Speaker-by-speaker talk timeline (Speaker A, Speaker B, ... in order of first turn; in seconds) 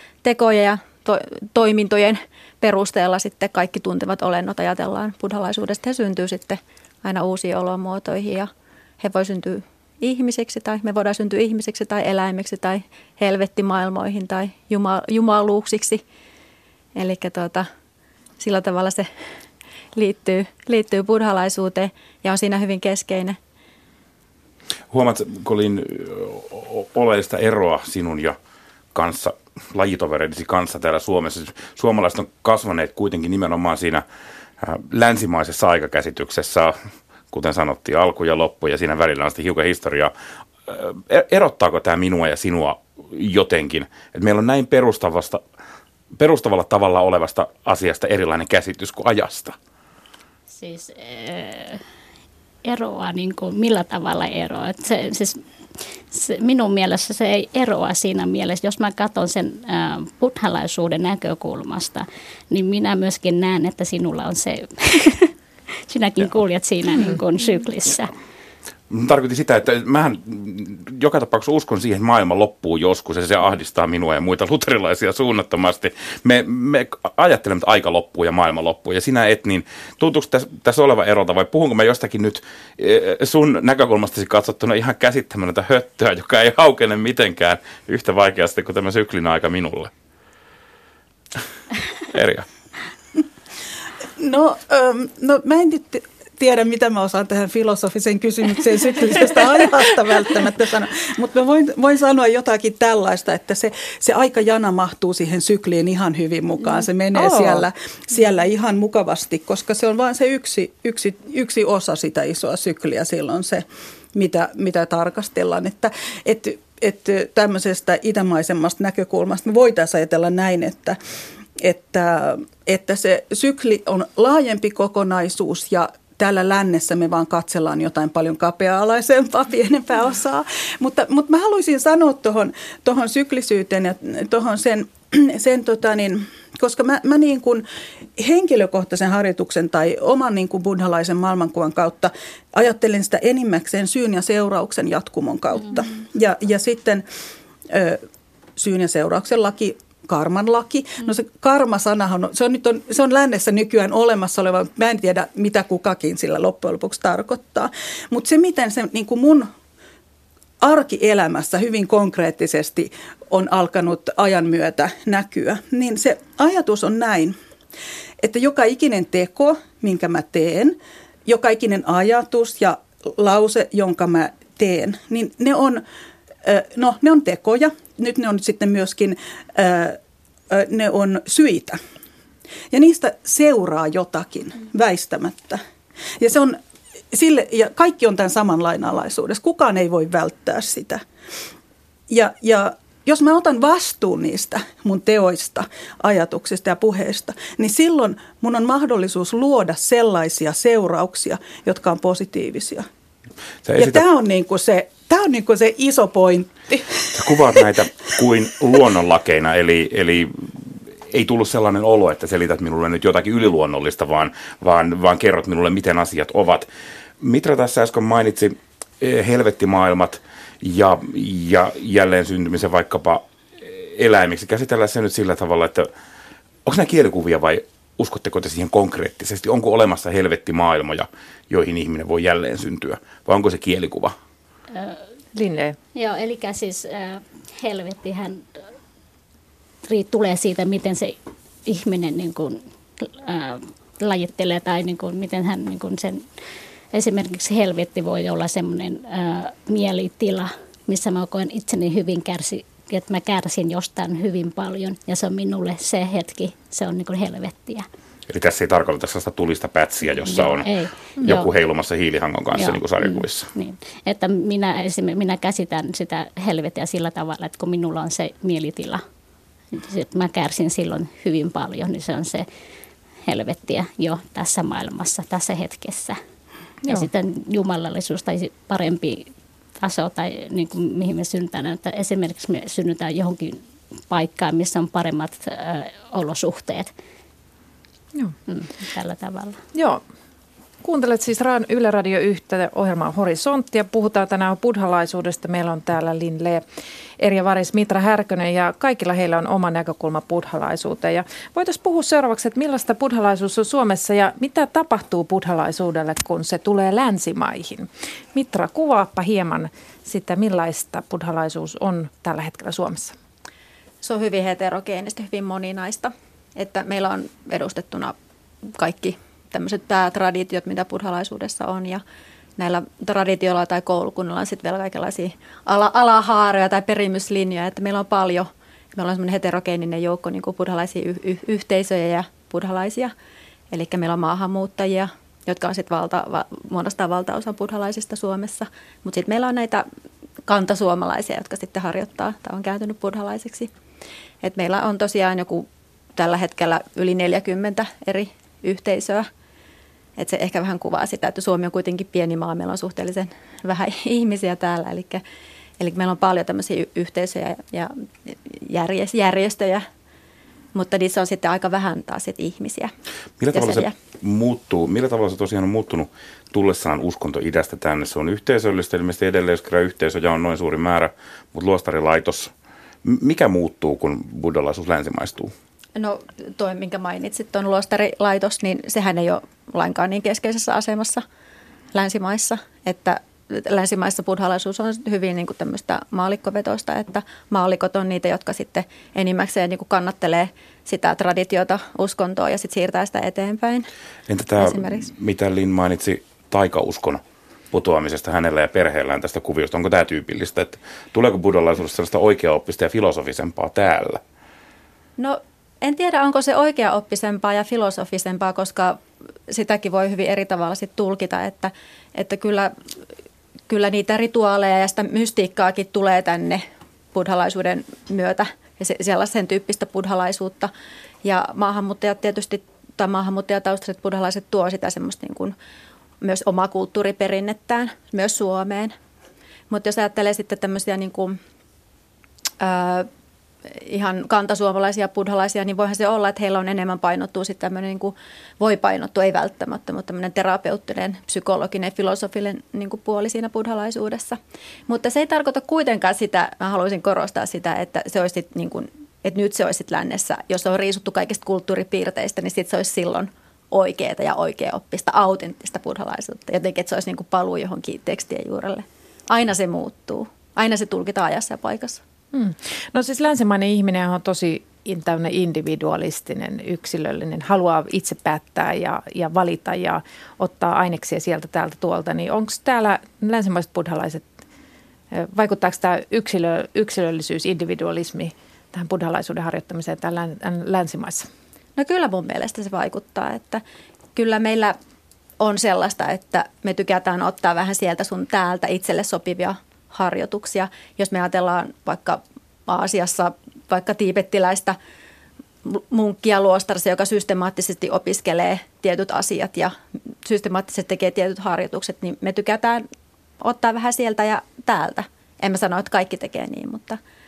Speaker A: 0.2-16.0, 16.9-17.7, 18.4-19.1, 19.9-23.4, 314.0-318.1, 318.7-322.0, 322.6-333.1, 333.7-339.8, 340.4-343.7, 344.4-349.3, 350.2-355.2, 355.8-359.8, 360.7-362.9, 363.5-363.9, 375.9-381.2, 381.9-393.9, 394.6-395.1, 405.2-412.7, 413.7-420.7, 421.2-425.5, 426.2-428.9, 429.7-431.4, 432.6-433.1, 433.6-462.0, 481.8-483.6, 484.1-484.8, 485.4-494.8, 495.6-502.8, 503.4-507.0
Speaker B: 24.9-28.4, 28.9-34.0, 34.6-36.8, 37.3-40.1, 40.6-45.4, 46.2-49.5, 68.9-89.9, 92.0-92.5, 203.6-204.0, 207.1-216.7, 217.2-225.9, 226.6-234.1, 258.3-260.7, 261.2-263.5, 363.4-372.5, 373.0-375.5, 394.3-397.2, 397.7-404.2
Speaker C: 50.5-51.8, 52.6-55.4, 56.1-65.3, 65.9-68.1, 234.7-235.0, 235.9-238.4, 239.8-246.2, 246.9-257.9, 260.3-261.5, 262.5-269.0, 269.7-272.4, 273.2-276.2, 276.9-286.9, 288.5-289.6
Speaker D: 94.2-121.0, 121.6-137.6, 138.2-147.0, 147.7-148.0, 148.6-159.5, 160.6-167.3, 168.2-175.8, 176.4-180.0, 180.5-181.8, 182.7-185.6, 186.2-186.6, 187.1-191.0, 192.1-202.9, 203.8-207.6
Speaker E: 107.1-107.6, 235.3-235.8, 261.2-261.4, 276.8-277.1, 289.7-290.0, 290.8-296.6, 297.2-313.1, 462.3-474.3, 475.1-481.3